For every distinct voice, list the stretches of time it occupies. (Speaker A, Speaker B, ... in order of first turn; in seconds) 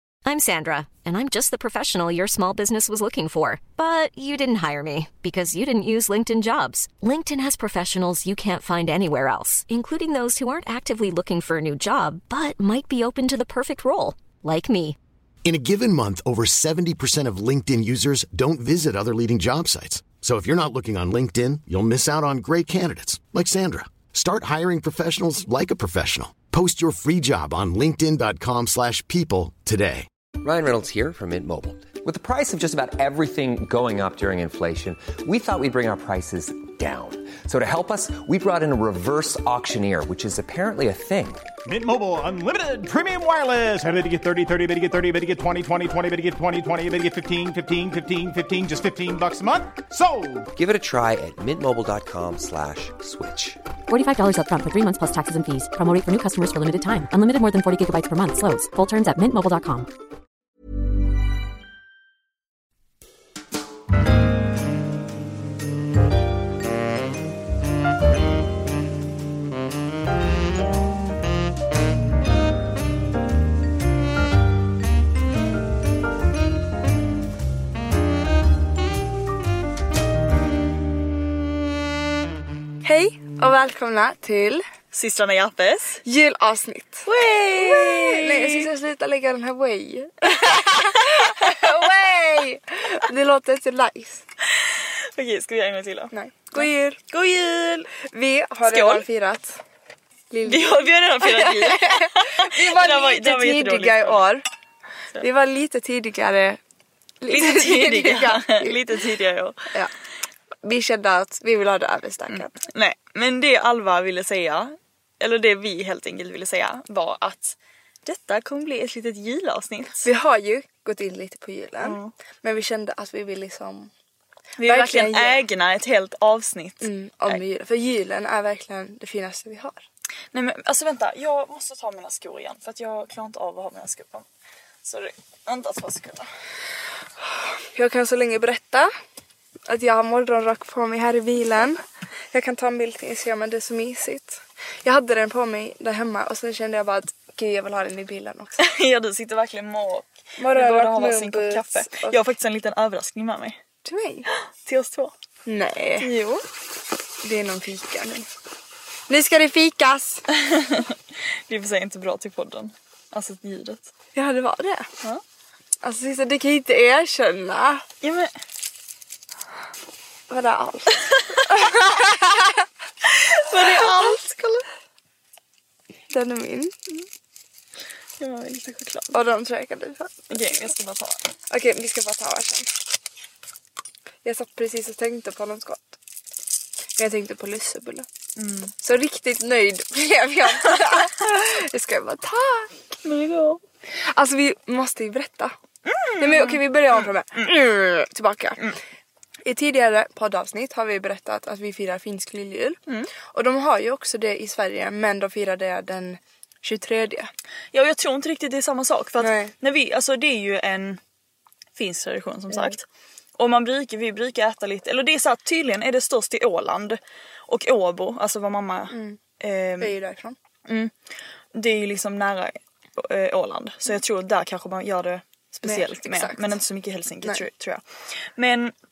Speaker A: 0.2-15.0
Speaker B: 15.4-30.1
Speaker C: 30.4-41.5, 50.5-53.6
Speaker D: 41.6-50.5
Speaker E: 53.9-59.9
Speaker F: 82.8-84.6, 86.0-94.2, 96.1-97.0, 98.0-99.6, 100.3-104.5, 105.2-106.6, 107.2-108.9, 110.6-112.5, 120.0-123.9, 124.6-125.5, 126.8-129.8, 137.2-138.9, 139.7-148.6, 150.4-152.2, 153.8-154.3, 155.5-156.1, 157.2-158.3, 159.1-160.3, 164.2-164.9, 165.8-167.8, 170.3-172.6, 173.5-174.2, 176.1-176.7, 179.1-180.5, 181.5-182.7, 184.2-186.0, 187.0-188.1, 188.8-192.9, 193.9-195.5, 196.2-198.8, 199.4-207.3, 209.2-209.5, 218.9-219.2, 219.8-220.4, 225.6-226.6
Speaker G: 84.9-86.0, 87.1-88.7, 90.5-91.3, 94.6-97.9, 98.7-99.1, 100.4-104.2, 107.3-109.7, 112.3-120.1, 121.8-122.1, 124.6-127.3, 130.3-134.3, 134.8-136.3, 148.6-153.6, 154.7-155.1, 156.0-156.4, 160.3-161.0, 161.5-163.9, 168.0-168.3, 171.1-171.8, 173.2-174.7, 178.2-179.2, 180.3-181.2, 188.4-188.7, 193.0-193.6, 195.9-197.5, 207.7-211.0, 211.8-212.8, 213.4-219.9, 220.7-220.9, 221.5-227.8, 228.4-228.7